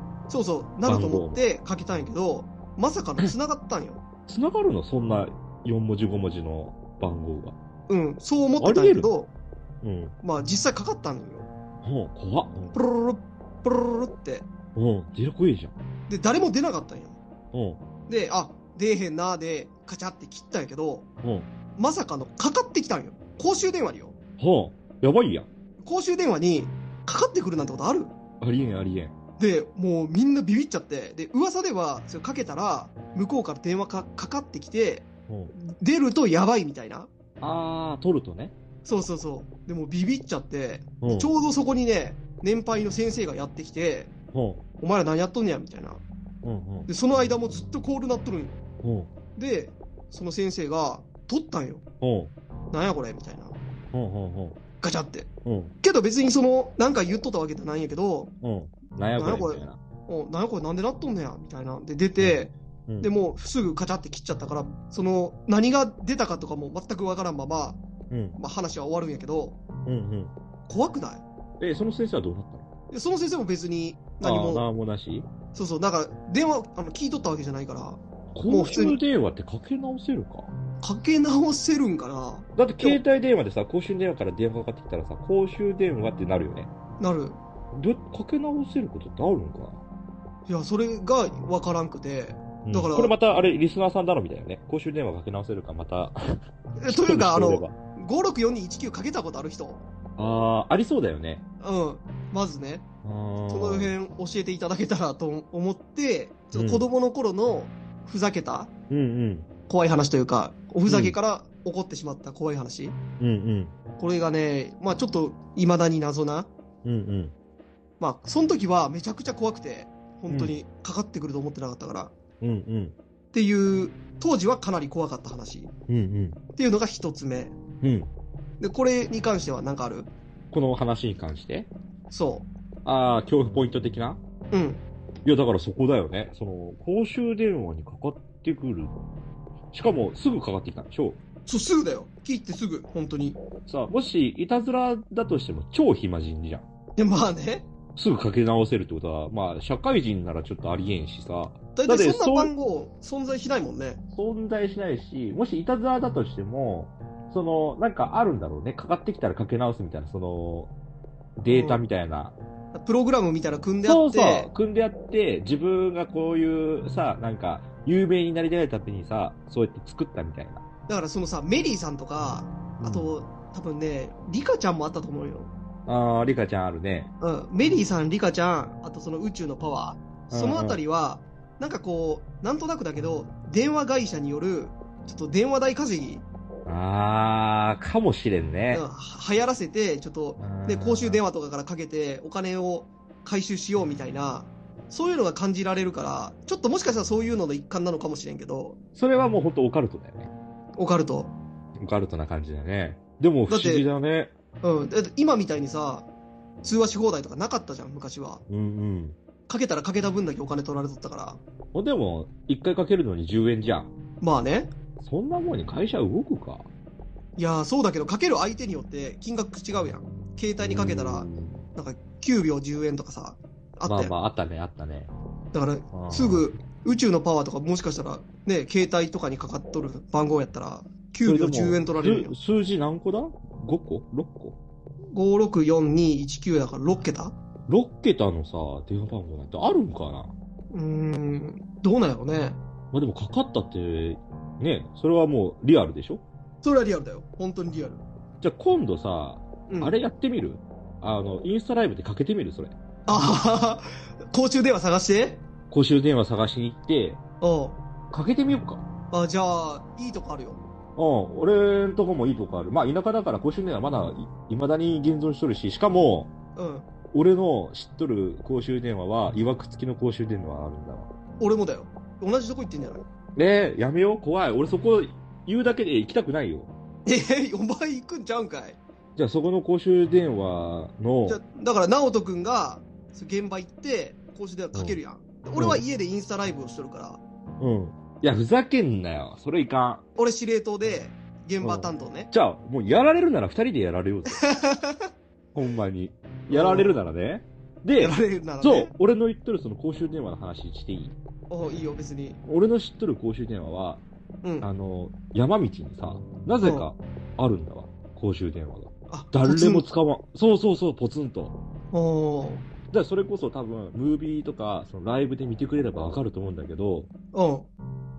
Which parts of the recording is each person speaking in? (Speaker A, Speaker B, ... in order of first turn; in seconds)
Speaker A: 0.3-4.0, 7.9-9.3, 10.2-11.5, 12.7-14.5, 16.1-17.2, 18.1-21.1, 21.8-24.1, 25.8-28.1, 29.4-37.1, 38.8-44.1, 44.8-46.0, 46.9-48.6, 49.4-51.8, 52.7-53.5, 54.8-55.3, 55.8-58.3, 59.2-67.8, 68.4-69.6, 70.7-71.2, 72.9-74.7, 75.5-79.0, 80.8-83.0, 87.0-87.4, 90.5-93.2, 96.8-99.8, 101.6-102.8, 103.5-108.7, 109.7-113.0, 114.0-116.5, 118.0-122.1, 123.3-125.7, 126.5-127.5, 128.6-130.1, 132.1-132.5, 134.5-134.8, 141.5-143.4, 147.0-147.7, 151.8-154.0, 161.5-161.8, 162.7-164.5, 170.9-175.5, 177.2-186.2, 188.7-198.8, 200.8-201.3, 203.5-203.9, 204.6-206.1, 206.6-208.4, 209.5-211.4, 214.2-214.7, 217.4-224.1, 225.5-232.3, 235.1-237.3, 240.7-242.6, 246.6-248.0, 249.7-249.9, 253.1-255.4, 257.4-257.8, 259.1-260.6, 266.6-266.9, 271.4-273.0, 277.1-278.8, 281.2-287.2, 290.1-292.3, 294.4-295.0, 296.5-297.0, 298.0-298.9, 301.5-302.4, 304.4-304.7, 306.6-306.9, 309.1-309.9, 311.9-312.6, 317.3-317.7
Speaker B: 0.8-1.4, 4.3-7.5, 8.6-9.1, 9.8-10.1, 11.8-12.7, 14.7-15.7, 17.5-17.8, 21.2-21.5, 24.4-25.5, 28.4-29.1, 35.3-35.5, 37.4-38.5, 41.0-41.3, 44.3-44.6, 46.4-46.9, 48.8-49.1, 52.0-52.3, 53.9-54.6, 55.4-55.7, 58.4-59.8, 62.2-63.1, 68.1-68.4, 69.8-70.3, 71.6-72.7, 74.2-75.3, 78.3-80.5, 82.5-86.7, 87.7-89.8, 92.6-97.7, 100.2-101.4, 103.0-103.9, 106.5-106.8, 108.9-109.5, 110.9-111.2, 113.2-113.7, 116.8-117.3, 120.3-120.5, 122.4-123.0, 125.9-126.4, 127.8-128.1, 130.5-131.7, 132.8-134.2, 135.2-138.9, 139.7-141.2, 143.7-146.6, 147.9-152.5, 154.1-160.7, 161.4-162.3, 163.8-170.6, 172.8-173.1, 175.8-177.1, 180.3-180.8, 186.7-188.8, 190.4-191.2, 198.9-200.3, 201.8-204.3, 208.5-209.2, 211.7-213.9, 215.0-216.7, 220.6-221.6, 223.8-225.1, 225.9-226.5, 231.2-234.6, 237.7-240.3, 242.9-246.2, 248.4-252.7, 255.7-257.2, 258.1-258.8, 260.9-266.3, 267.1-271.1, 273.4-276.7, 279.1-281.4, 285.6-285.8, 287.6-290.0, 291.6-294.4, 295.5-301.1, 302.4-304.0, 304.6-311.5, 312.9-317.1